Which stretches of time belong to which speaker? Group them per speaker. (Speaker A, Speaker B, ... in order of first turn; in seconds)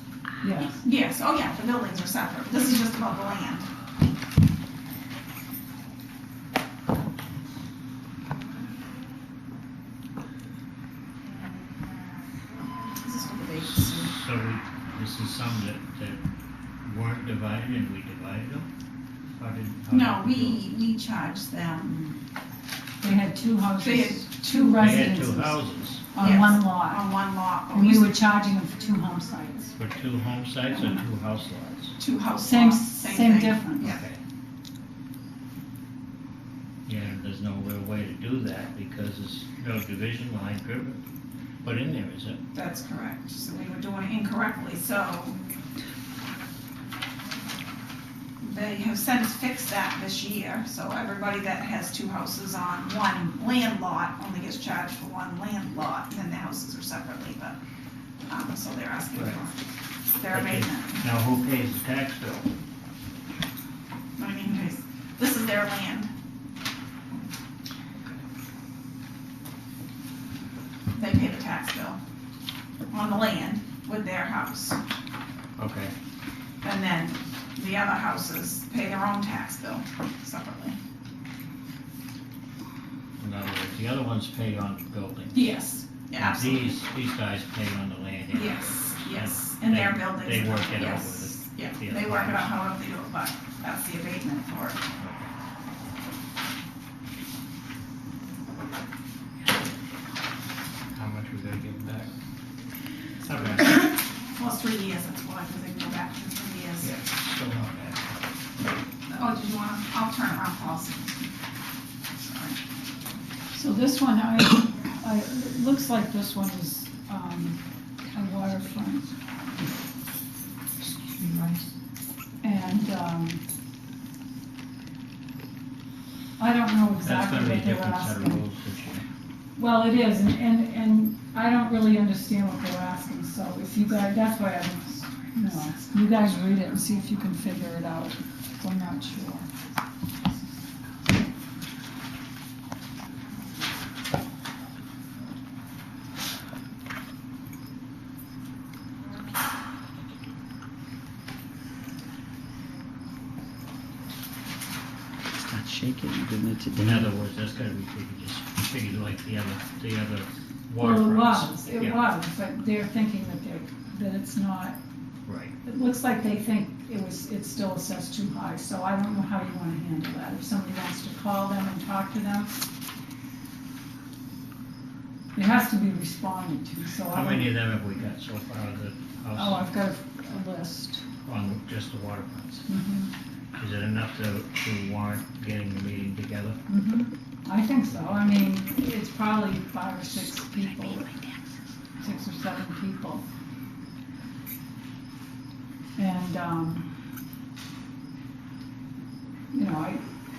Speaker A: 0.4-0.8, 23.0-25.6, 26.1-27.1, 27.7-29.8, 32.4-33.9, 113.5-119.1, 122.4-123.4, 126.4-128.4, 129.6-139.5, 160.8-164.8, 165.6-172.6, 175.3-177.6, 179.3-181.1, 182.7-183.1, 186.7-191.1, 192.0-193.2, 196.0-196.8, 199.5-200.0
Speaker B: 0.8-3.7, 12.9-14.2, 19.9-22.2, 23.8-24.7, 26.1-28.2, 32.0-34.0, 42.5-45.4, 48.4-57.6, 58.3-59.5, 60.1-61.0, 64.2-66.1, 70.9-72.0, 72.9-74.8, 76.6-80.8, 85.3-86.8, 88.3-94.8, 104.3-107.0, 109.1-111.3, 112.2-112.6, 135.4-136.3, 191.0-191.3
Speaker C: 13.8-16.2, 16.8-18.7, 19.3-20.6, 24.8-26.1, 29.7-32.0, 33.8-34.2, 36.9-41.0, 41.6-42.4, 60.3-62.5, 75.6-75.9, 83.2-85.5, 86.2-92.5, 95.0-95.3, 100.9-102.1, 103.2-103.9, 106.8-108.0, 127.0-129.0, 156.7-162.0, 165.2-165.5, 177.1-179.6, 181.2-182.7, 183.6-186.6, 187.9-188.2
Speaker D: 121.1-121.6, 155.5-157.1